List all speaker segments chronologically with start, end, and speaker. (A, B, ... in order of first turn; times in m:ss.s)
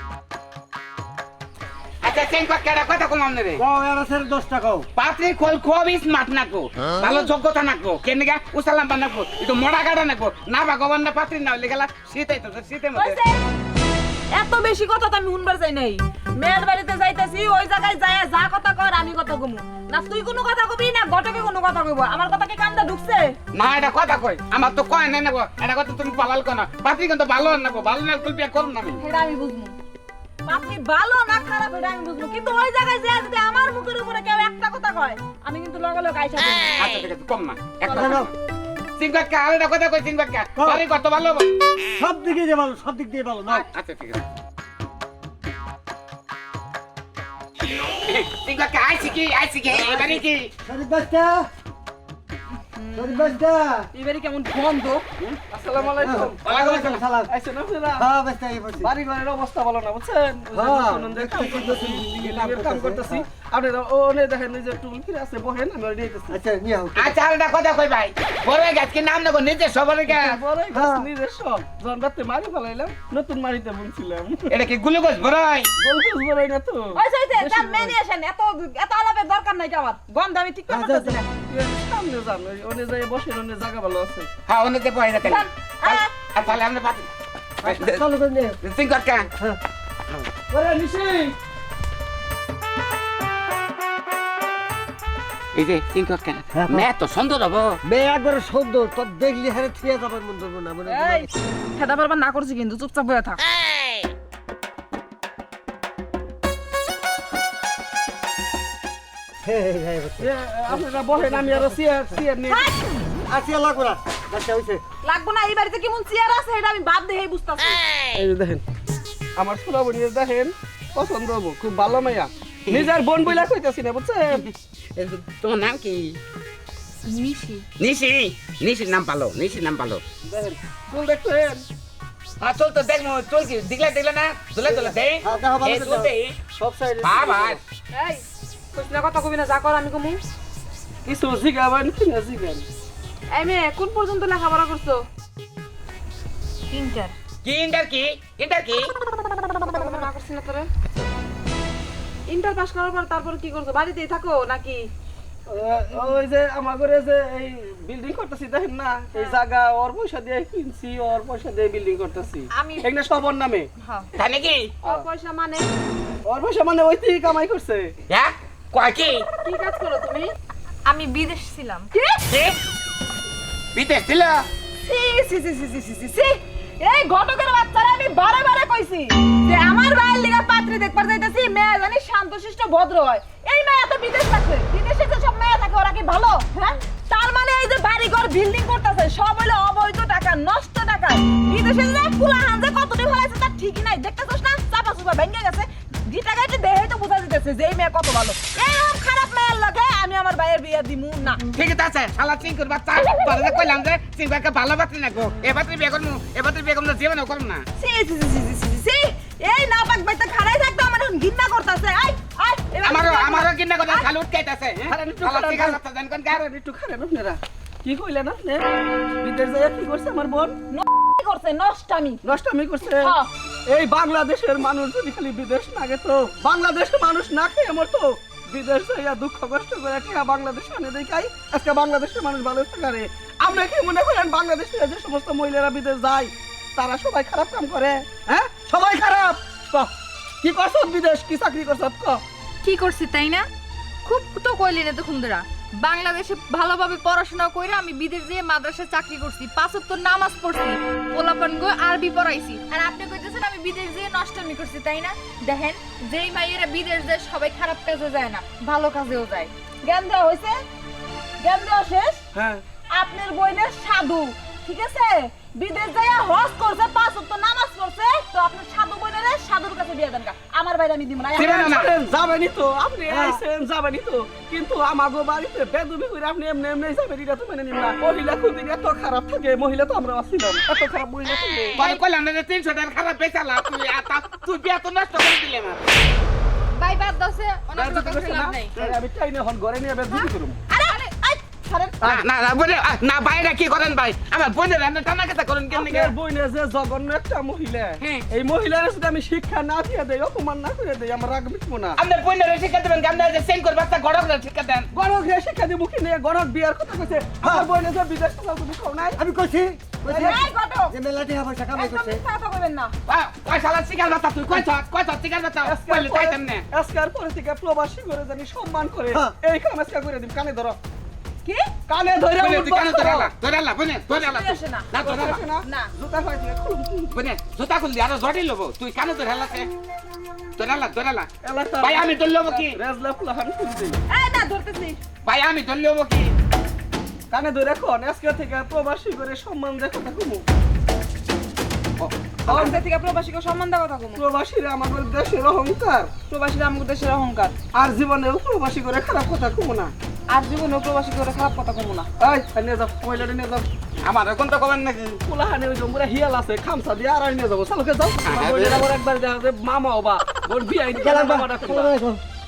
0:02.0-0:03.6 A
0:03.6-0:04.9 B
0:04.9-0:13.2 A
0:13.0-0:13.4 C
0:14.3-0:23.4 C
0:23.5-0:29.0 A
0:29.0-0:29.7 C
0:30.5-0:36.7 C
0:36.8-0:38.3 A
0:37.9-0:38.3 B
0:37.9-0:38.2 C
0:39.0-0:41.5 A
0:40.6-0:40.8 B
0:41.9-0:43.7 B
0:43.5-0:44.2 A
0:48.1-0:50.5 A
0:50.6-0:51.5 B
0:52.8-0:53.4 C
0:52.9-0:53.9 B
0:53.9-0:55.1 C
0:55.5-0:56.4 D
0:56.0-0:57.3 B
0:56.4-0:57.0 A
0:57.3-0:58.1 D
0:58.0-0:58.9 B
0:58.8-1:06.4 D
1:00.5-1:03.3 B
1:06.3-1:07.2 B
1:07.0-1:10.4 A
1:10.1-1:14.6 D
1:10.7-1:11.1 B
1:14.5-1:15.7 A
1:15.8-1:18.0 D
1:16.9-1:21.3 C
1:20.7-1:21.2 B
1:21.5-1:24.3 D
1:24.5-1:27.1 A
1:25.2-1:26.1 C
1:27.6-1:28.6 B
1:27.6-1:28.0 A
1:28.6-1:29.3 A
1:30.5-1:31.4 D
1:35.6-1:37.8 A
1:36.5-1:36.9 B
1:37.8-1:41.3 B
1:40.9-1:43.4 C
1:49.4-1:50.8 B
1:50.2-1:52.7 D
1:52.5-1:52.9 C
1:53.3-1:54.8 B
1:55.0-1:57.8 C
1:58.1-1:58.6 D
1:59.4-2:04.4 D
2:02.7-2:03.0 A
2:04.4-2:06.2 A
2:07.1-2:07.6 E
2:07.8-2:10.0 A
2:10.2-2:11.6 D
2:12.4-2:16.4 A
2:14.7-2:17.6 B
2:17.0-2:17.6 A
2:17.9-2:20.2 C
2:21.0-2:22.7 D
2:23.3-2:25.0 C
2:26.7-2:27.1 E
2:27.4-2:28.9 A
2:29.5-2:30.7 C
2:32.3-2:34.9 C
2:35.5-2:43.7 D
2:42.5-2:43.0 E
2:43.8-2:44.1 E
2:44.2-2:44.7 A
2:44.8-2:45.7 C
2:46.2-2:47.9 D
2:48.1-2:49.3 A
2:49.4-2:50.3 C
2:50.9-2:51.9 E
2:51.9-2:52.3 C
2:52.3-2:52.6 A
2:53.8-2:54.5 A
2:54.8-3:21.4 C
3:21.5-3:27.6 A
3:23.0-3:23.8 C
3:27.8-3:34.1 C
3:32.8-3:36.4 A
3:34.8-3:35.8 D
3:36.3-3:40.6 D
3:40.7-3:42.2 C
3:42.2-3:43.2 D
3:43.0-3:43.3 C
3:43.7-4:02.2 D
4:02.6-4:03.5 E
4:04.0-4:19.5 E
4:19.8-4:20.6 C
4:21.4-4:22.2 C
4:22.3-4:22.6 D
4:22.9-4:31.8 C
4:31.4-4:31.9 A
4:31.6-4:41.9 D
4:33.1-4:33.4 B
4:41.8-4:45.8 A
4:46.7-4:48.8 E
4:47.7-4:48.1 A
4:47.7-4:50.6 D
4:50.7-4:52.1 C
4:52.0-4:56.1 A
4:55.7-5:02.0 D
4:58.0-4:58.2 A
5:02.0-5:04.9 A
5:04.9-5:09.2 D
5:07.4-5:07.7 B
5:09.1-5:12.2 B
5:10.1-5:10.4 D
5:10.1-5:11.0 C
5:11.7-5:12.9 C
5:13.1-5:16.7 A
5:15.6-5:20.8 D
5:21.4-5:21.7 C
5:21.9-5:23.3 D
5:22.4-5:25.4 A
5:24.1-5:24.9 C
5:25.0-5:27.2 D
5:25.6-5:25.9 C
5:27.1-5:29.7 A
5:30.6-5:32.8 A
5:31.4-5:34.0 D
5:34.1-5:35.0 C
5:35.2-5:36.4 A
5:37.3-5:40.4 D
5:42.5-5:44.2 C
5:42.5-5:42.8 D
5:44.2-5:46.1 D
5:46.3-5:47.6 C
5:47.7-5:49.9 D
5:50.3-5:52.1 C
5:52.2-5:53.7 D
5:54.0-5:55.2 A
5:55.2-6:01.9 D
5:58.2-5:58.9 A
6:01.0-6:02.2 B